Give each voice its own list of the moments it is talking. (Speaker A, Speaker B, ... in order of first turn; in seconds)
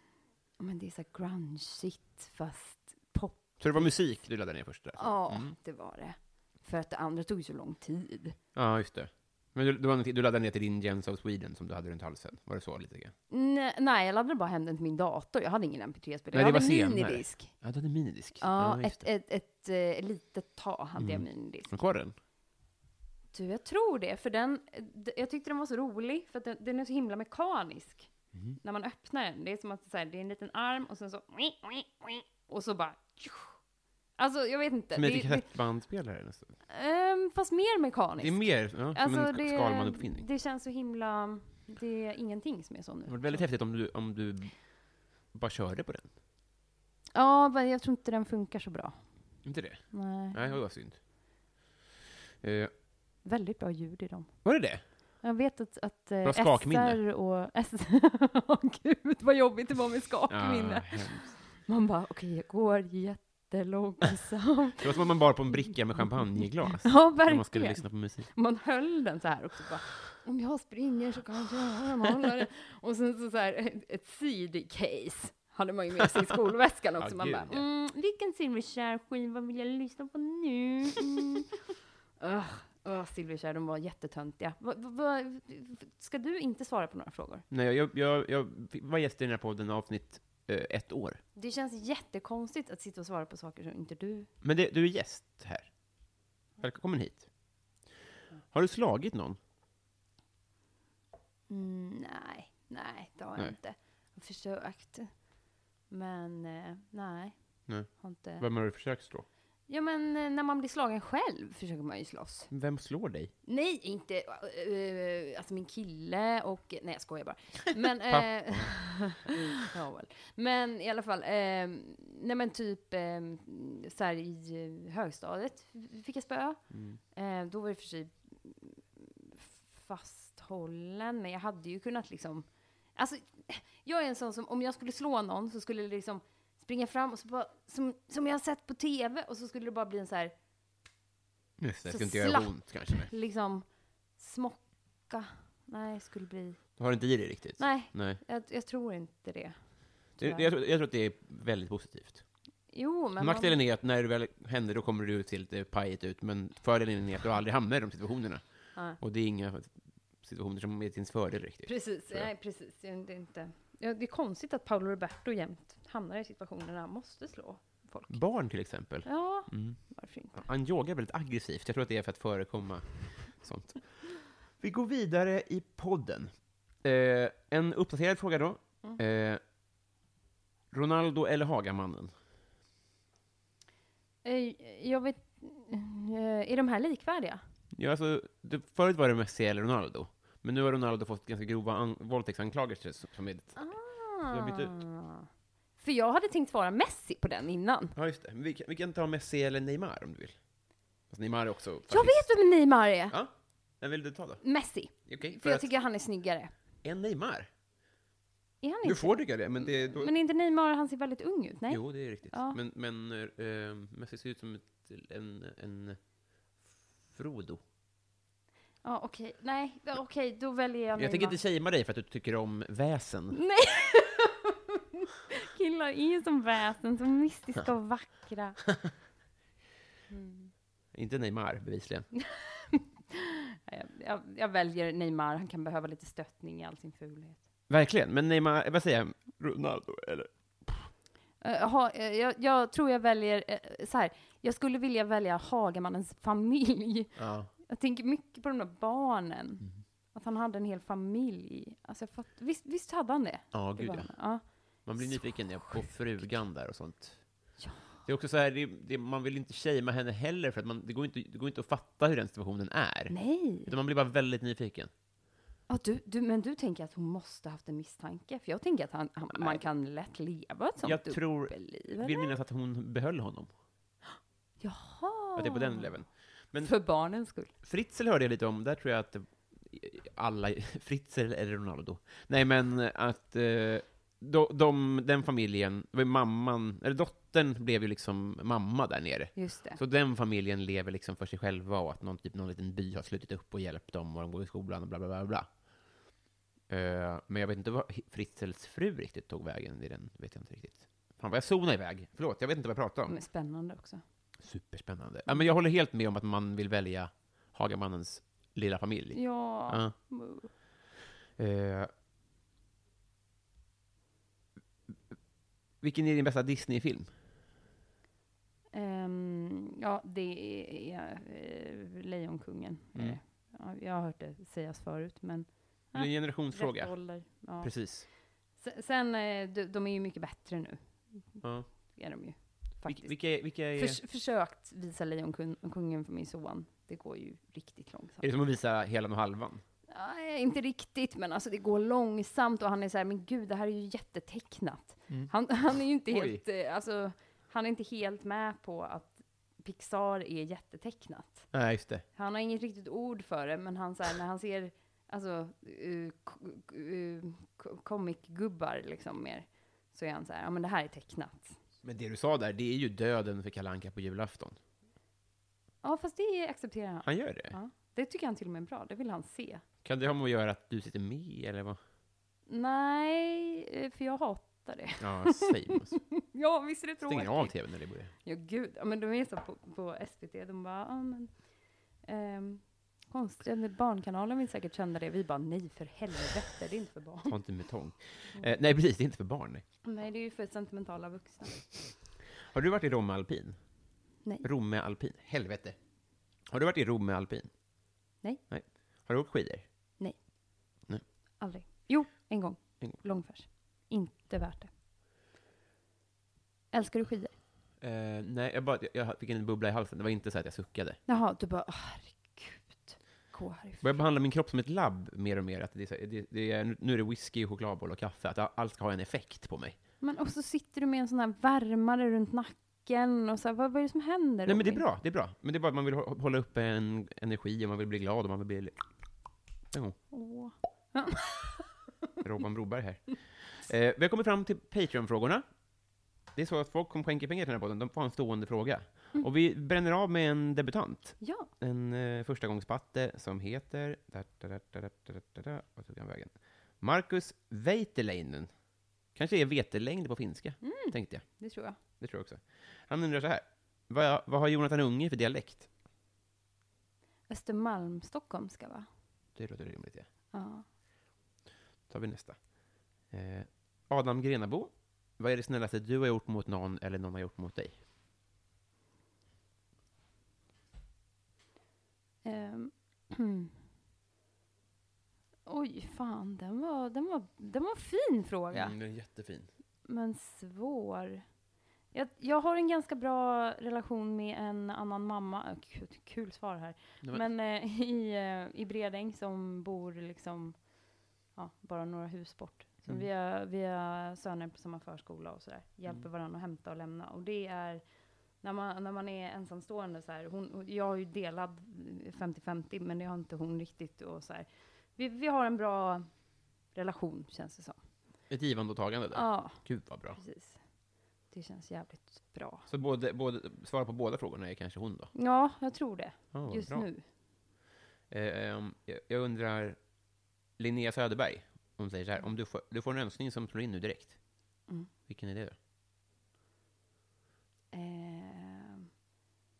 Speaker A: 0.6-3.9, 5.0-8.4, 13.3-17.5, 18.4-21.7, 23.3-33.5, 34.2-35.5, 36.7-43.5, 47.1-49.0, 49.9-50.5, 53.2-54.3, 55.2-65.0, 66.8-81.5, 82.2-87.5, 91.4-94.3, 101.5-105.1, 105.9-107.4, 107.9-108.5, 109.7-112.5, 113.5-140.3, 141.9-146.6, 147.6-150.5, 152.7-153.6, 161.7-168.2, 169.1-170.5, 184.2-187.4, 193.6-197.9, 201.9-203.2, 204.4-206.5, 208.6-212.6, 218.8-221.4, 223.3-228.6, 230.1-230.5, 232.2-237.4, 241.4-256.3, 257.6-258.0, 263.1-263.7, 265.7-272.3, 274.1-276.0, 276.6-277.5, 289.4-289.8, 303.1-304.0, 309.1-310.5, 318.7-338.3, 339.9-351.5, 352.1-361.6, 365.8-369.6, 372.5-387.4, 389.8-391.7, 401.4-404.7, 406.7-407.4, 411.1-414.0, 420.0-424.8, 430.1-431.7, 441.2-441.5, 450.6-451.8, 457.3-458.9, 460.3-460.6, 472.2-473.5, 475.5-478.8, 479.9-481.3, 481.9-497.8, 498.4-506.1, 506.7-507.8, 509.1-510.6, 511.3-512.7, 515.1-517.0, 527.7-528.9
Speaker B: 3.6-5.5, 8.6-13.1, 16.3-19.1, 21.0-22.1, 28.3-28.6, 35.0-36.5, 38.2-40.2, 43.1-44.8, 45.3-46.1, 49.4-51.0, 52.4-52.7, 54.4-54.8, 56.2-57.0, 60.3-61.3, 64.8-68.3, 77.0-77.7, 87.5-91.2, 94.4-95.7, 96.6-97.3, 98.5-99.4, 107.7-109.3, 112.5-113.3, 118.1-119.4, 126.7-127.0, 141.6-143.1, 146.8-148.2, 150.2-152.2, 153.2-162.3, 168.1-176.3, 176.8-179.4, 180.7-182.1, 187.7-194.7, 197.9-200.4, 201.1-202.3, 203.1-205.7, 206.8-207.5, 208.8-210.1, 211.7-216.0, 217.1-217.6, 221.0-223.4, 230.9-232.1, 237.7-240.9, 247.2-247.5, 253.5-264.9, 269.3-269.6, 270.8-273.5, 275.4-276.8, 277.6-295.5, 296.7-303.2, 304.4-309.9, 311.4-311.9, 315.8-317.1, 325.9-328.1, 331.4-331.7, 332.9-334.0, 338.2-339.6, 345.1-346.4, 351.5-352.1, 361.8-364.6, 367.1-367.6, 369.8-371.8, 375.0-376.0, 377.0-378.1, 387.2-389.6, 392.4-393.6, 394.4-395.8, 396.5-397.5, 398.5-399.6, 407.8-411.0, 413.8-419.8, 424.5-428.8, 429.7-430.0, 432.2-435.4, 436.3-448.5, 449.1-455.7, 459.4-460.1, 461.9-467.8, 478.5-479.5, 508.3-510.2, 512.7-515.1, 516.3-516.9, 518.1-519.8, 520.6-524.2, 525.1-525.6